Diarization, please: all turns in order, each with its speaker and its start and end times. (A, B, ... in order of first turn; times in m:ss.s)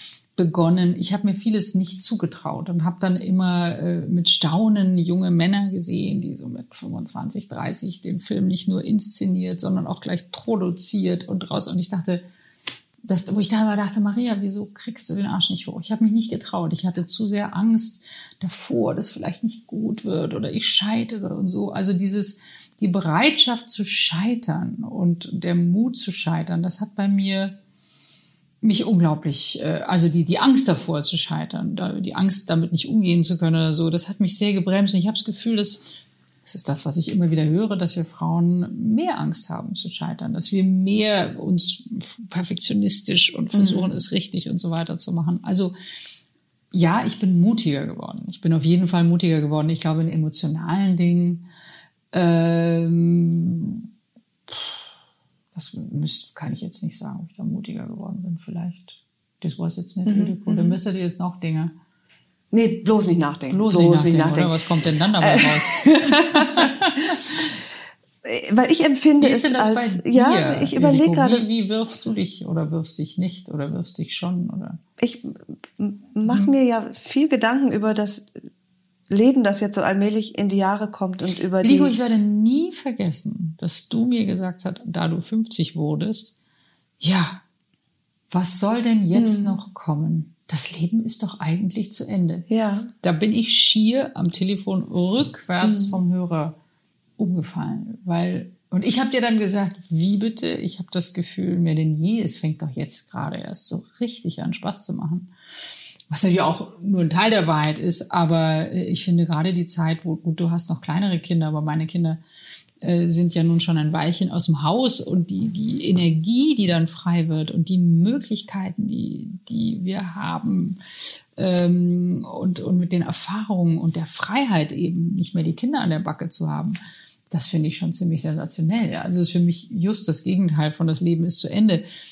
0:00.4-0:12.2 A
0:13.0-0:27.6 A
0:28.6-0:35.9 A
0:36.5-0:45.7 A
0:43.5-0:43.9 B
0:46.7-0:51.4 A
0:52.1-0:53.9 A
0:54.5-0:54.8 A
0:55.6-1:01.7 A
1:00.0-1:00.8 B
1:02.5-1:04.6 B
1:03.5-1:07.4 A
1:05.2-1:06.7 B
1:08.2-1:11.5 B
1:09.2-1:14.8 A
1:15.0-1:18.4 B
1:16.2-1:16.5 A
1:19.1-1:22.0 B
1:21.6-1:26.3 A
1:27.0-1:27.4 A
1:28.3-1:32.5 A
1:29.1-1:29.6 B
1:32.5-1:32.9 B
1:33.0-1:36.6 A
1:35.6-1:36.0 B
1:37.2-1:45.3 A
1:46.1-1:52.2 A
1:52.8-2:00.8 A
2:01.4-2:06.8 A
2:07.3-2:11.8 A